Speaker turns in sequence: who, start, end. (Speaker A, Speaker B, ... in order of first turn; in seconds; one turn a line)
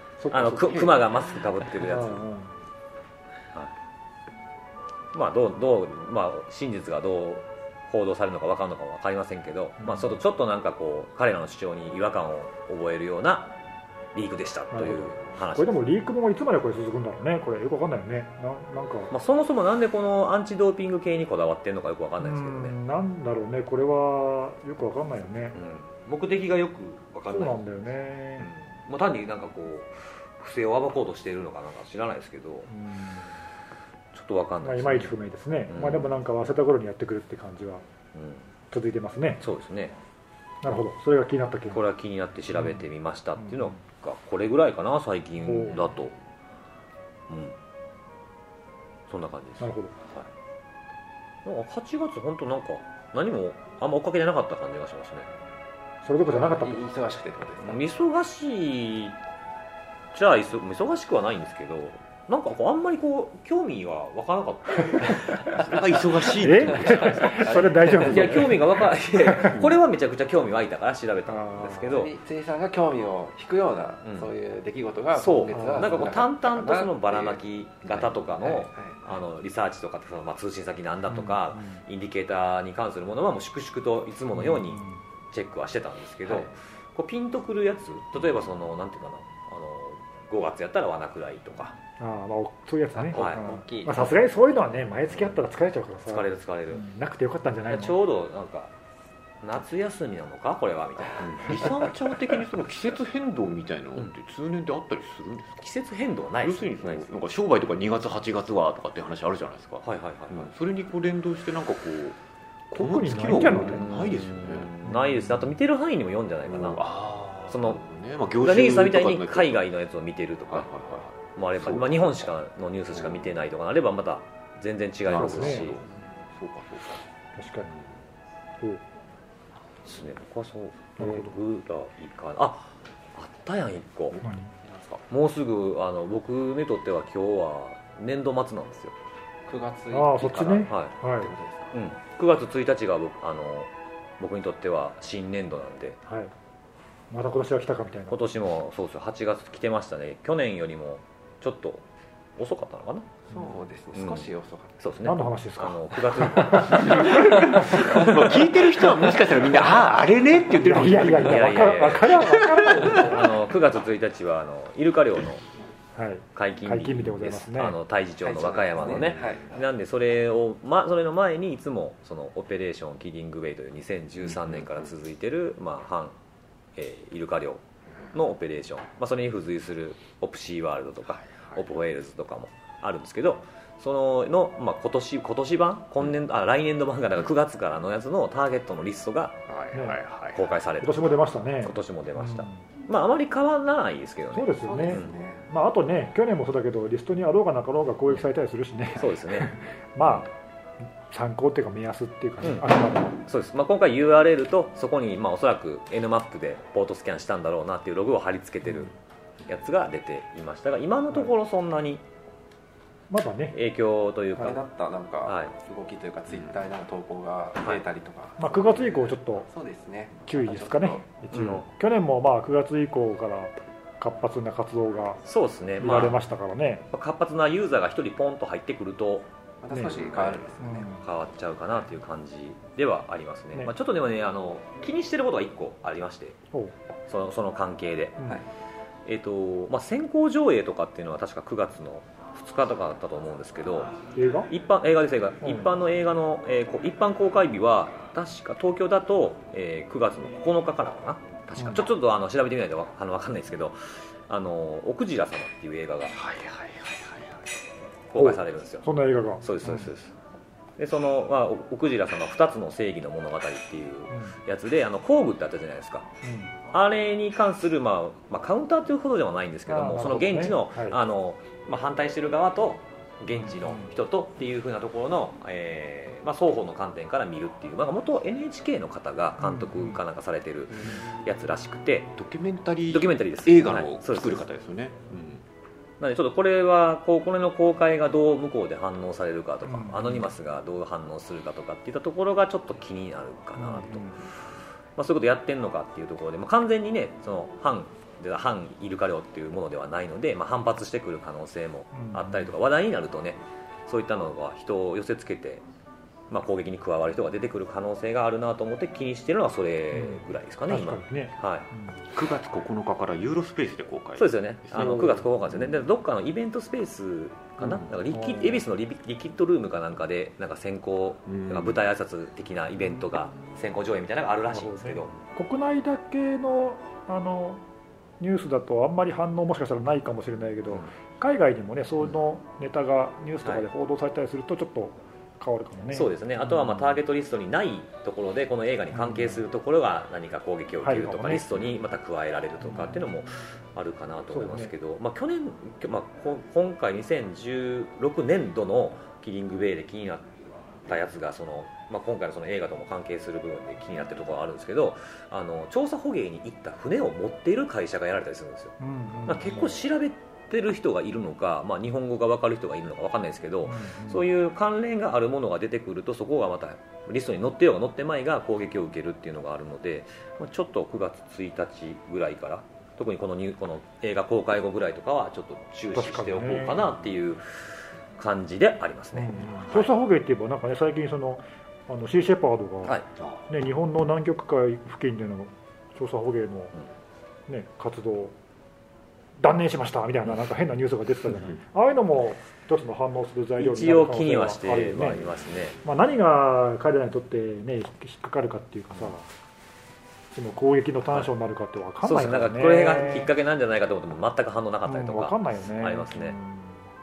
Speaker A: 0.2-0.8
Speaker B: 0.3-2.2
Speaker A: 1.8-2.5
Speaker B: 5.1-13.5
Speaker A: 9.8-10.1
Speaker B: 14.1-15.7
Speaker A: 14.7-19.1
Speaker B: 19.1-22.7
Speaker A: 22.2-25.6
Speaker B: 25.5-27.6
Speaker A: 27.3-28.5
Speaker B: 28.4-32.7
Speaker A: 32.7-33.2
Speaker B: 34.1-35.1
Speaker A: 34.6-37.8
Speaker B: 35.7-36.1
Speaker B: 38.1-38.4
Speaker A: 38.7-39.4
Speaker B: 39.4-40.0
Speaker A: 40.6-41.8
Speaker B: 41.7-46.1
Speaker A: 42.5-42.8
Speaker A: 45.4-45.9
Speaker B: 47.3-47.5
Speaker B: 49.1-50.2
Speaker A: 49.6-49.9
Speaker B: 51.4-55.3
Speaker A: 56.0-56.9
Speaker C: 56.3-57.8
Speaker B: 57.6-59.2
Speaker B: 60.1-65.7
Speaker A: 64.9-65.2
Speaker D: 65.5-67.6
Speaker A: 66.4-69.6
Speaker C: 66.9-69.4
Speaker B: 66.9-67.3
Speaker B: 67.9-72.1
Speaker A: 71.3-71.9
Speaker C: 71.8-77.4
Speaker B: 74.0-74.3
Speaker B: 75.1-91.8
Speaker A: 75.5-76.1
Speaker C: 78.4-79.0
Speaker A: 81.1-81.6
Speaker A: 84.3-85.0
Speaker A: 92.0-98.0
Speaker C: 92.9-94.2
Speaker B: 93.1-93.5
Speaker B: 96.1-96.8
Speaker B: 97.7-98.7
Speaker B: 99.4-101.9
Speaker D: 101.2-105.7
Speaker B: 105.6-107.1
Speaker D: 106.4-112.2
Speaker B: 109.8-110.5
Speaker D: 112.7-114.7
Speaker A: 112.7-113.9
Speaker B: 113.4-116.8
Speaker A: 114.9-115.2
Speaker D: 116.5-119.6
Speaker B: 117.5-117.8
Speaker B: 118.4-120.7
Speaker D: 120.5-122.0
Speaker B: 121.2-125.8
Speaker D: 122.9-123.2
Speaker D: 125.1-127.0
Speaker A: 125.1-125.7
Speaker A: 127.3-127.7
Speaker B: 129.8-134.2
Speaker A: 131.0-131.3
Speaker A: 134.2-134.5
Speaker D: 134.6-135.0
Speaker B: 135.1-138.9
Speaker C: 139.4-141.7
Speaker A: 139.9-141.3
Speaker B: 140.7-140.9
Speaker B: 141.7-146.0
Speaker A: 146.1-146.3
Speaker A: 147.1-148.2
Speaker B: 148.1-151.8
Speaker B: 152.4-153.1
Speaker C: 153.3-154.8
Speaker B: 153.9-154.3
Speaker B: 154.8-157.8
Speaker A: 155.0-157.8
Speaker C: 156.8-159.1
Speaker D: 157.1-161.7
Speaker A: 160.5-163.4
Speaker B: 161.1-165.4
Speaker A: 165.9-167.8
Speaker B: 166.3-176.1
Speaker C: 168.2-169.5
Speaker D: 169.1-169.3
Speaker B: 176.8-177.6
Speaker B: 178.1-189.4
Speaker D: 181.2-181.6
Speaker D: 189.5-190.5
Speaker A: 189.7-190.0
Speaker B: 190.3-195.1
Speaker A: 190.8-192.5
Speaker A: 194.3-200.3
Speaker C: 194.6-195.4
Speaker B: 198.9-200.3
Speaker A: 201.1-203.2
Speaker B: 203.2-208.9
Speaker B: 209.4-212.0
Speaker A: 213.1-213.6
Speaker B: 213.5-214.6
Speaker C: 214.4-221.0
Speaker B: 215.2-215.5
Speaker A: 218.4-219.4
Speaker A: 220.3-225.2
Speaker B: 221.3-221.6
Speaker B: 225.2-226.2
Speaker A: 225.8-226.8
Speaker B: 226.9-229.3
Speaker C: 229.6-230.9
Speaker A: 229.7-230.0
Speaker B: 230.0-230.4
Speaker A: 230.6-231.0
Speaker B: 231.0-236.4
Speaker B: 237.1-238.3
Speaker B: 239.1-244.0
Speaker A: 244.1-244.5
Speaker B: 244.5-256.2
Speaker A: 251.6-251.8
Speaker D: 256.2-257.3
Speaker B: 258.1-258.9
Speaker A: 258.1-259.9
Speaker B: 259.4-260.1
Speaker B: 260.8-266.1
Speaker A: 266.2-266.5
Speaker B: 266.7-282.1
Speaker A: 269.7-271.0
Speaker A: 273.4-273.9
Speaker A: 279.4-280.0
Speaker D: 282.2-285.4
Speaker B: 282.9-284.4
Speaker B: 286.0-294.3
Speaker A: 289.7-290.2
Speaker A: 293.6-294.1
Speaker B: 294.9-305.6
Speaker A: 301.9-302.5
Speaker B: 306.3-311.7
Speaker A: 309.9-311.8
Speaker D: 312.1-315.4
Speaker B: 314.2-325.1
Speaker A: 318.1-318.6
Speaker D: 321.3-321.8
Speaker A: 324.5-327.6
Speaker A: 328.2-336.8
Speaker B: 335.9-358.7
Speaker A: 338.9-339.4
Speaker A: 340.8-341.6
Speaker A: 342.6-343.1
Speaker A: 344.3-344.7
Speaker A: 358.8-359.8
Speaker B: 359.2-379.9
Speaker A: 363.6-364.2
Speaker A: 375.9-376.9
Speaker A: 379.1-383.0
Speaker A: 383.5-386.7
Speaker A: 387.5-388.3
Speaker A: 389.4-395.3
Speaker B: 393.6-395.8
Speaker A: 395.8-399.3
Speaker A: 400.3-403.3
Speaker B: 402.0-406.4
Speaker A: 404.9-406.8